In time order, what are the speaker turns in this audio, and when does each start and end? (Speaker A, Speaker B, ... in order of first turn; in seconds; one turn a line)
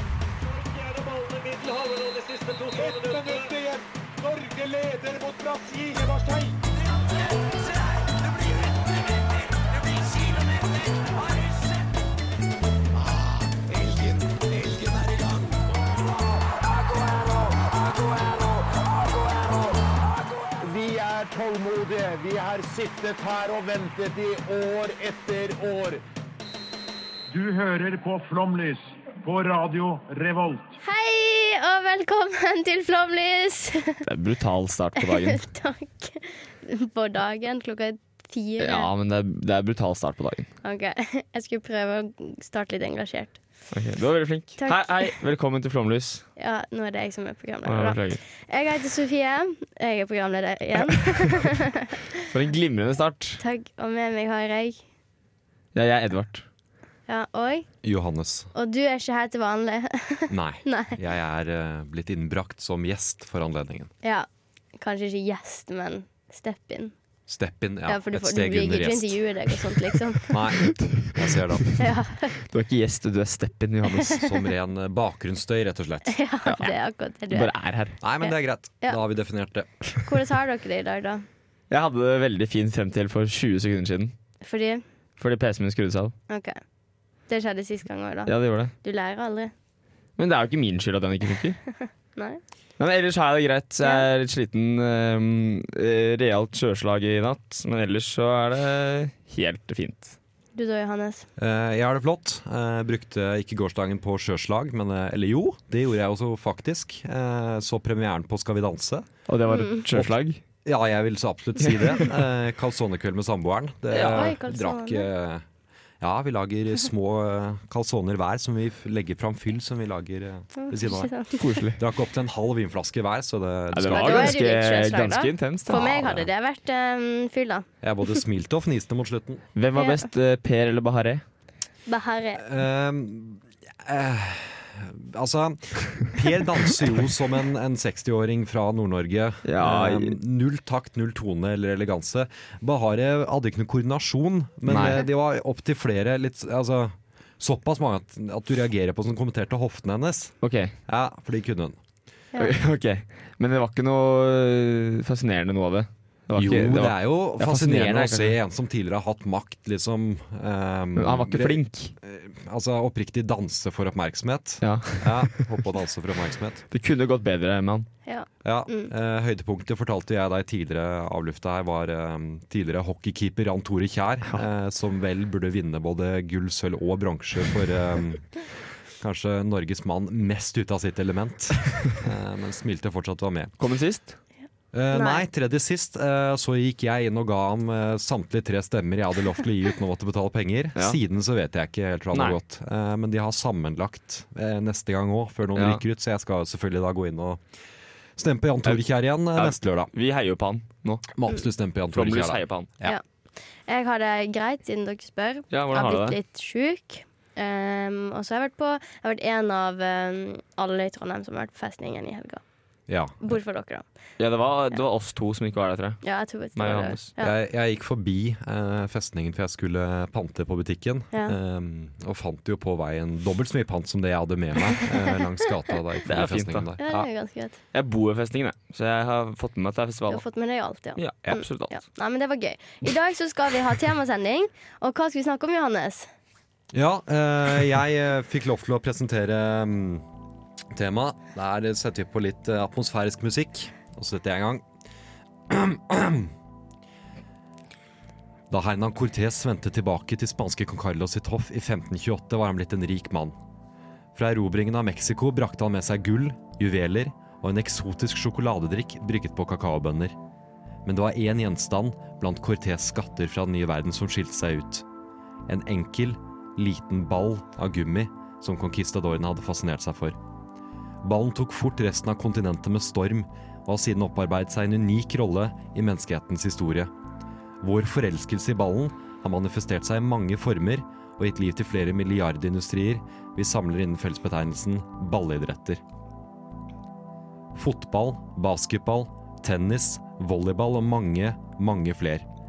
Speaker A: 0.6-6.6
Speaker B: 3.3-3.5
Speaker C: 16.5-26.0
Speaker B: 27.3-30.7
Speaker D: 30.8-34.0
Speaker E: 34.0-35.5
Speaker D: 35.2-38.9
Speaker E: 38.6-40.5
Speaker D: 40.6-43.4
Speaker E: 43.7-46.2
Speaker D: 44.6-45.1
Speaker D: 46.4-52.0
Speaker E: 47.7-48.2
Speaker E: 52.3-53.4
Speaker D: 53.4-54.8
Speaker E: 55.7-56.5
Speaker D: 57.1-57.7
Speaker F: 57.8-58.5
Speaker D: 58.5-61.0
Speaker F: 60.3-63.9
Speaker D: 64.0-66.9
Speaker F: 67.3-69.3
Speaker D: 67.9-70.4
Speaker F: 70.3-71.8
Speaker E: 70.6-71.8
Speaker D: 71.8-72.3
Speaker E: 72.5-74.2
Speaker F: 74.2-76.2
Speaker D: 76.1-77.5
Speaker E: 76.5-76.7
Speaker E: 77.3-78.0
Speaker F: 78.0-79.9
Speaker D: 78.2-79.0
Speaker D: 80.1-81.2
Speaker E: 81.7-84.1
Speaker D: 84.4-84.8
Speaker E: 85.2-86.2
Speaker D: 86.3-86.6
Speaker D: 87.3-89.5
Speaker E: 88.3-88.7
Speaker E: 90.2-91.6
Speaker D: 91.7-92.4
Speaker E: 92.8-100.2
Speaker D: 100.5-101.3
Speaker F: 101.4-109.1
Speaker E: 109.3-110.4
Speaker D: 109.5-109.8
Speaker F: 110.0-115.5
Speaker E: 113.9-114.3
Speaker D: 114.0-115.1
Speaker F: 116.0-121.1
Speaker D: 120.5-121.5
Speaker E: 121.4-121.8
Speaker F: 121.8-124.4
Speaker E: 123.7-126.2
Speaker D: 123.9-127.7
Speaker F: 125.8-126.2
Speaker F: 127.8-129.4
Speaker E: 129.6-131.2
Speaker D: 129.8-130.0
Speaker D: 131.9-132.4
Speaker F: 132.4-151.8
Speaker E: 139.4-140.2
Speaker E: 144.7-145.0
Speaker E: 150.4-150.7
Speaker E: 152.4-158.4
Speaker F: 156.3-166.6
Speaker E: 161.0-161.9
Speaker E: 164.6-165.5
Speaker E: 166.7-167.9
Speaker D: 168.1-168.9
Speaker F: 168.4-178.3
Speaker F: 179.0-183.6
Speaker E: 183.6-184.2
Speaker F: 184.7-197.4
Speaker D: 184.9-185.2
Speaker E: 192.1-192.4
Speaker E: 195.6-195.8
Speaker F: 198.2-199.9
Speaker E: 199.3-201.1
Speaker F: 201.2-203.0
Speaker E: 201.9-202.7
Speaker D: 203.7-212.4
Speaker E: 205.5-206.2
Speaker F: 212.9-213.3
Speaker D: 213.2-213.8
Speaker E: 214.2-216.0
Speaker D: 216.0-217.3
Speaker E: 216.6-217.1
Speaker F: 217.2-227.1
Speaker E: 226.1-226.7
Speaker D: 226.8-227.6
Speaker E: 227.7-230.2
Speaker D: 230.1-236.1
Speaker E: 231.0-231.7
Speaker F: 236.7-240.0
Speaker F: 240.7-244.7
Speaker F: 245.5-246.3
Speaker F: 248.5-253.3
Speaker F: 254.2-260.2
Speaker F: 260.9-264.9
Speaker F: 265.5-270.2
Speaker F: 271.0-276.9
Speaker F: 277.6-285.8
Speaker F: 287.6-292.3